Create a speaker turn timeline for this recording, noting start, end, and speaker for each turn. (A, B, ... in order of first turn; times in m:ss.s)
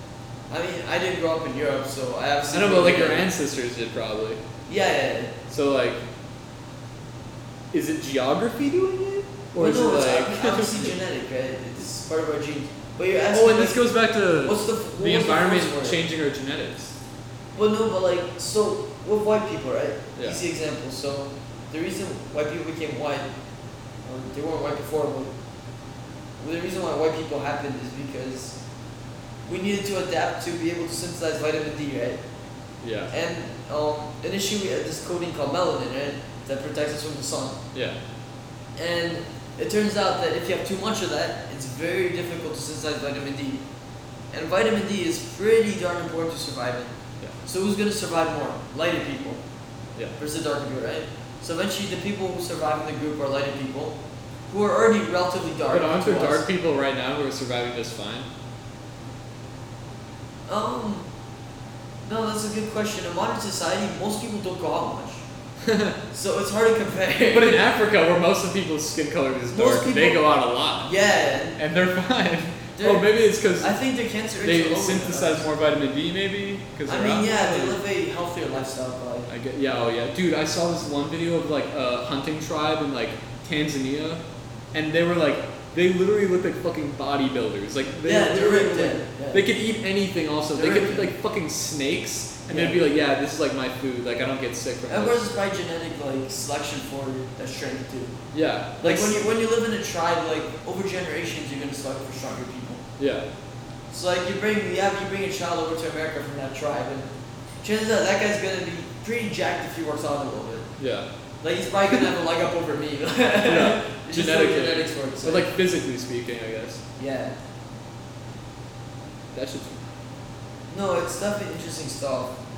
0:00.5-0:03.3 A
0:02.5-0:04.4 B
0:04.7-0:05.4 A
0:05.5-0:06.0 B
0:07.7-0:11.0 B
0:09.6-0:13.9 A
0:13.3-0:16.9 B
0:14.4-0:16.0 A
0:17.6-0:23.2 A
0:24.0-0:25.3 A
0:26.4-0:28.6 A
0:29.5-0:32.2 A
0:32.8-0:33.1 B
0:33.1-0:37.6 A
0:38.8-0:43.6 A
0:44.3-0:49.4 A
0:50.2-0:54.0 A
0:54.5-0:56.4 A
0:55.7-0:58.3 B
1:00.5-1:01.0 A
1:02.1-1:05.2 A
1:05.6-1:06.0 B
1:06.1-1:07.6 A
1:07.3-1:10.9 B
1:09.5-1:10.2 A
1:10.8-1:11.6 A
1:11.6-1:13.8 B
1:12.8-1:15.5 A
1:14.4-1:17.8 B
1:16.9-1:19.3 A
1:19.3-1:24.2 B
1:24.7-1:35.2 B
1:28.0-1:29.4 A
1:30.5-1:31.1 A
1:32.5-1:32.8 A
1:34.9-1:38.1 A
1:38.3-1:39.2 B
1:38.8-1:42.8 A
1:43.0-1:43.2 B
1:43.9-1:47.1 A
1:47.6-1:50.7 A
1:50.8-1:51.1 B
1:51.4-1:55.5 A
1:53.5-1:56.8 B
1:57.0-1:57.3 A
1:59.3-1:59.8 B
2:00.7-2:02.3 A